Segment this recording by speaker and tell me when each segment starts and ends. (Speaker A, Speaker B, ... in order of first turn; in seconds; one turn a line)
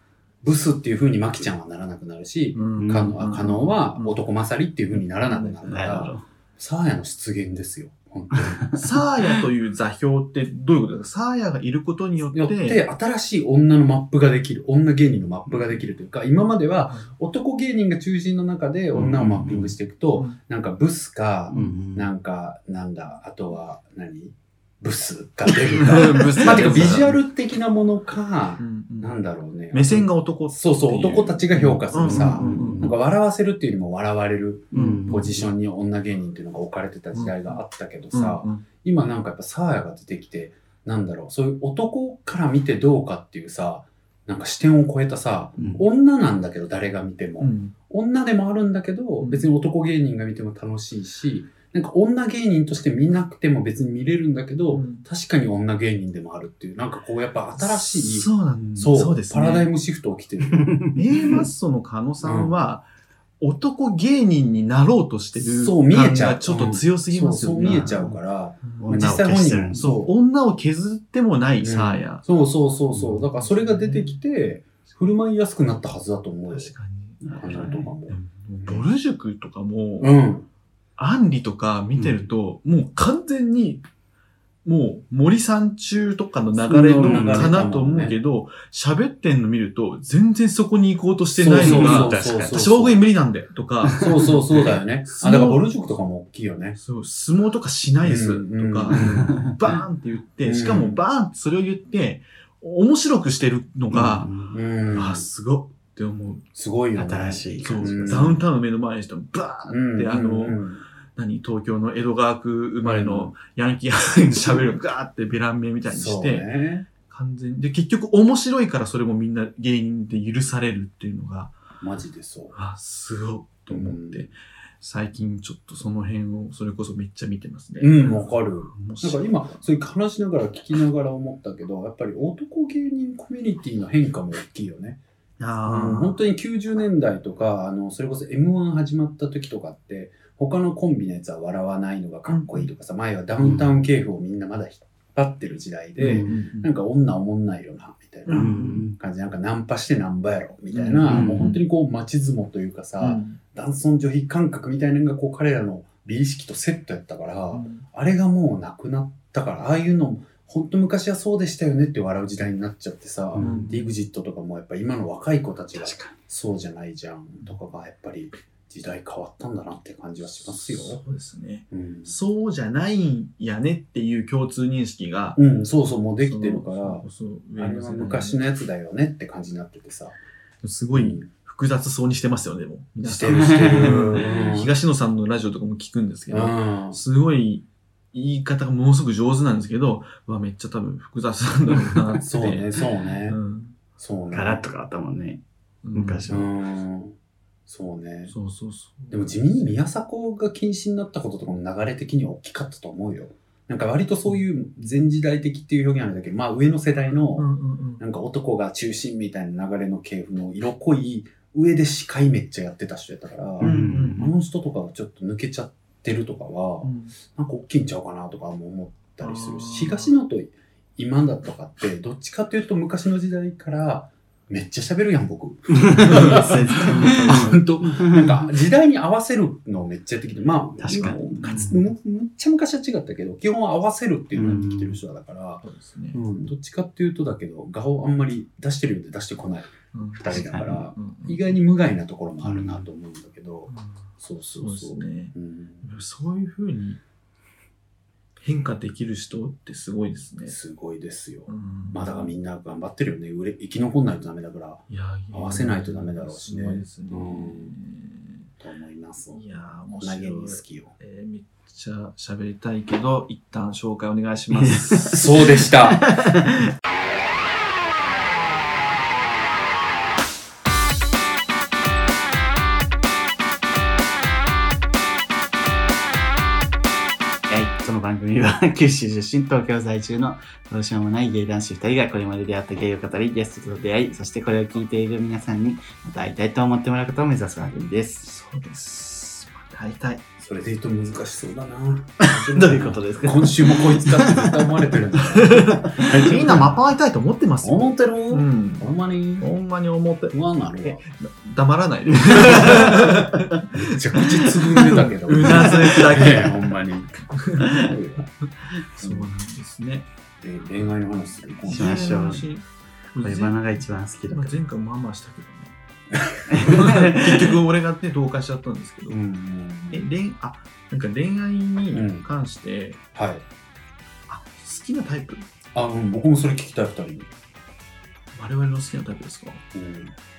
Speaker A: 0.4-8.7
Speaker B: 2.5-4.1
Speaker C: 2.8-3.2
Speaker C: 5.6-6.2
Speaker C: 8.3-9.4
Speaker B: 8.7-12.8
Speaker A: 12.3-60.9
Speaker C: 18.9-19.7
Speaker C: 21.5-22.1
Speaker B: 25.7-27.1
Speaker B: 28.6-29.1
Speaker B: 29.7-32.9
Speaker C: 32.0-32.9
Speaker C: 34.7-35.4
Speaker B: 34.7-35.4
Speaker B: 37.1-37.5
Speaker B: 38.1-38.6
Speaker B: 47.4-47.7
Speaker B: 49.2-49.5
Speaker B: 54.7-55.0
Speaker B: 57.6-59.7
Speaker C: 60.5-61.0
Speaker B: 60.9-62.9
Speaker A: 62.2-62.5
Speaker B: 63.4-67.9
Speaker A: 65.4-70.1
Speaker C: 67.6-68.2
Speaker B: 68.6-69.0
Speaker C: 68.8-69.9
Speaker B: 69.7-72.2
Speaker A: 71.6-76.7
Speaker B: 72.9-74.2
Speaker B: 76.5-80.2
Speaker C: 77.2-77.7
Speaker A: 77.4-78.9
Speaker A: 80.0-80.5
Speaker B: 81.0-83.8
Speaker B: 84.6-94.4
Speaker A: 86.6-88.1
Speaker C: 87.0-87.5
Speaker A: 91.3-93.0
Speaker C: 91.5-92.6
Speaker A: 94.0-96.8
Speaker B: 95.1-95.6
Speaker B: 96.8-104.3
Speaker A: 98.0-99.4
Speaker C: 98.9-99.5
Speaker A: 100.4-101.0
Speaker A: 103.9-105.2
Speaker C: 104.0-104.6
Speaker B: 104.9-106.4
Speaker A: 106.5-108.4
Speaker C: 106.9-108.4
Speaker B: 107.6-110.6
Speaker A: 109.7-110.8
Speaker B: 111.2-116.5
Speaker A: 112.8-113.3
Speaker A: 115.9-116.9
Speaker B: 117.1-121.6
Speaker A: 121.8-122.5
Speaker B: 122.5-129.7
Speaker A: 123.7-124.3
Speaker A: 127.8-135.0
Speaker B: 135.4-136.2
Speaker A: 135.6-171.0
Speaker B: 142.3-142.7
Speaker C: 143.4-143.7
Speaker B: 146.0-146.7
Speaker C: 146.0-146.3
Speaker B: 148.3-148.8
Speaker C: 148.3-148.9
Speaker B: 150.7-151.6
Speaker C: 151.1-151.6
Speaker B: 153.0-153.4
Speaker B: 157.5-157.8
Speaker C: 163.3-163.6
Speaker B: 163.4-163.8
Speaker C: 165.8-166.1
Speaker B: 170.5-175.4
Speaker A: 171.7-172.1
Speaker A: 175.3-177.0
Speaker B: 176.2-178.4
Speaker A: 177.6-180.2
Speaker B: 180.6-192.8
Speaker A: 180.9-181.3
Speaker A: 183.0-184.7
Speaker C: 183.2-184.3
Speaker A: 186.3-187.0
Speaker A: 192.2-193.4
Speaker B: 193.3-193.8
Speaker A: 194.0-194.6
Speaker C: 194.3-195.4
Speaker B: 195.8-196.3
Speaker C: 195.9-196.5
Speaker A: 196.3-197.1
Speaker A: 197.7-198.3
Speaker B: 198.3-199.7
Speaker A: 199.1-245.8
Speaker B: 207.4-208.0
Speaker C: 213.6-214.3
Speaker B: 213.6-214.3
Speaker B: 216.8-217.1
Speaker B: 219.2-220.1
Speaker C: 225.7-228.5
Speaker B: 225.9-227.6
Speaker C: 230.8-231.8
Speaker B: 231.3-231.8
Speaker C: 234.3-235.0
Speaker B: 235.6-236.2
Speaker B: 239.9-241.6
Speaker C: 240.3-240.8
Speaker C: 242.4-242.8
Speaker B: 243.7-247.0
Speaker B: 248.4-250.6
Speaker A: 250.5-257.7
Speaker B: 251.5-252.3
Speaker B: 254.9-258.4
Speaker A: 258.6-259.4
Speaker B: 259.3-265.2
Speaker A: 259.9-260.9
Speaker C: 264.5-266.7
Speaker A: 265.1-266.0
Speaker C: 277.5-288.3
Speaker B: 288.2-290.2
Speaker A: 290.4-296.8
Speaker C: 292.2-296.5
Speaker B: 295.3-306.7
Speaker A: 297.6-299.5
Speaker A: 300.3-301.0
Speaker A: 302.3-303.2
Speaker C: 302.4-302.9
Speaker A: 303.7-307.1
Speaker C: 305.4-306.0
Speaker B: 307.3-307.9
Speaker A: 307.7-308.3
Speaker B: 308.5-310.1
Speaker A: 309.0-309.3
Speaker A: 310.4-312.2
Speaker C: 311.7-312.5
Speaker B: 311.7-315.8
Speaker C: 313.2-314.6
Speaker A: 316.1-316.8
Speaker B: 316.5-319.2
Speaker C: 316.5-317.5
Speaker A: 319.1-320.0
Speaker B: 319.9-323.0
Speaker A: 321.9-322.2
Speaker A: 323.1-323.4
Speaker B: 324.3-325.5
Speaker A: 325.7-327.3
Speaker B: 328.3-329.6
Speaker A: 329.7-330.1